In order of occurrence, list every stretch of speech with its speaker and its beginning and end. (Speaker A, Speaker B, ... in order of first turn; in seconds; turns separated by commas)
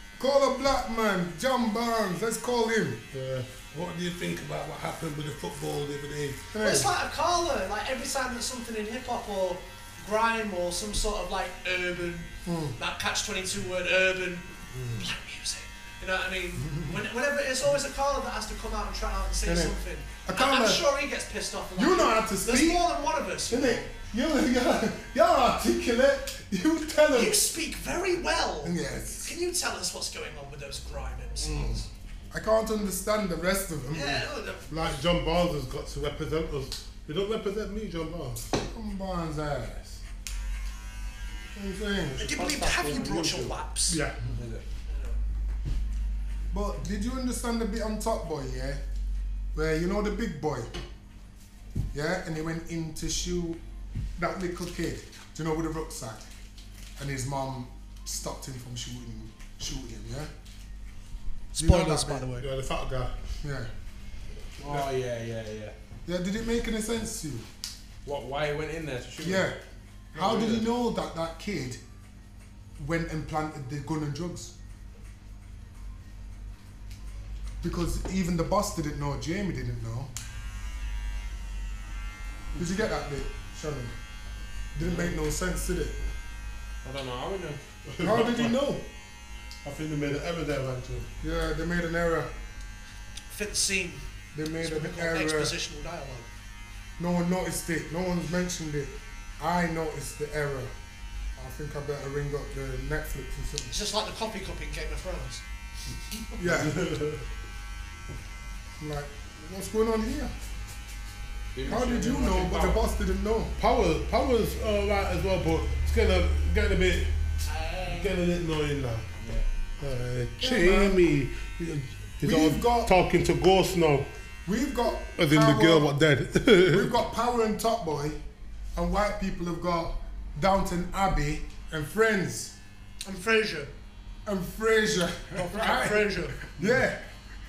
Speaker A: 0.2-3.0, Speaker B: 3.1-6.5, Speaker A: 6.5-6.9, Speaker C: 6.6-23.9, Speaker A: 12.4-12.8, Speaker A: 16.6-17.0, Speaker A: 19.4-20.9, Speaker A: 21.8-22.8, Speaker A: 23.5-27.4, Speaker C: 27.1-31.9, Speaker A: 28.6-29.3, Speaker A: 31.4-34.3, Speaker C: 33.9-35.0, Speaker B: 34.7-38.5, Speaker A: 38.7-39.8, Speaker A: 41.5-42.3, Speaker C: 42.2-44.0, Speaker D: 42.3-43.6, Speaker B: 43.9-44.2, Speaker D: 44.3-44.6, Speaker C: 44.9-45.2, Speaker A: 46.5-48.8, Speaker A: 49.5-50.7, Speaker A: 51.9-53.6, Speaker A: 54.2-56.2, Speaker A: 57.0-60.3, Speaker C: 61.5-62.5, Speaker A: 61.5-62.3, Speaker B: 62.3-63.1, Speaker A: 63.4-63.7, Speaker D: 64.6-65.8, Speaker B: 64.6-64.9, Speaker A: 66.0-67.5, Speaker D: 68.0-69.5, Speaker A: 69.2-69.6, Speaker A: 70.1-71.8, Speaker D: 70.1-70.7, Speaker A: 72.8-74.5, Speaker A: 77.6-80.1, Speaker A: 82.5-83.9, Speaker A: 84.7-86.0, Speaker D: 84.8-85.2, Speaker D: 86.8-87.6, Speaker B: 87.9-88.7, Speaker A: 88.0-88.8, Speaker B: 89.6-91.1, Speaker A: 91.2-92.3, Speaker C: 93.3-94.0, Speaker A: 94.3-95.5, Speaker C: 94.6-96.3, Speaker A: 97.0-100.7, Speaker A: 101.3-103.8, Speaker C: 103.7-105.4, Speaker A: 106.4-106.8, Speaker B: 106.4-107.2, Speaker A: 108.8-110.3, Speaker D: 111.5-112.8, Speaker A: 111.6-113.5, Speaker B: 113.6-117.1, Speaker C: 117.4-118.2, Speaker B: 117.8-119.0, Speaker D: 119.2-119.5, Speaker B: 119.8-124.1, Speaker A: 120.4-121.0, Speaker A: 122.2-122.9, Speaker A: 124.5-125.9, Speaker B: 125.0-126.9, Speaker A: 126.7-128.2, Speaker A: 128.7-132.6, Speaker C: 133.0-133.7, Speaker A: 134.2-137.0, Speaker C: 135.3-136.3, Speaker B: 136.6-136.8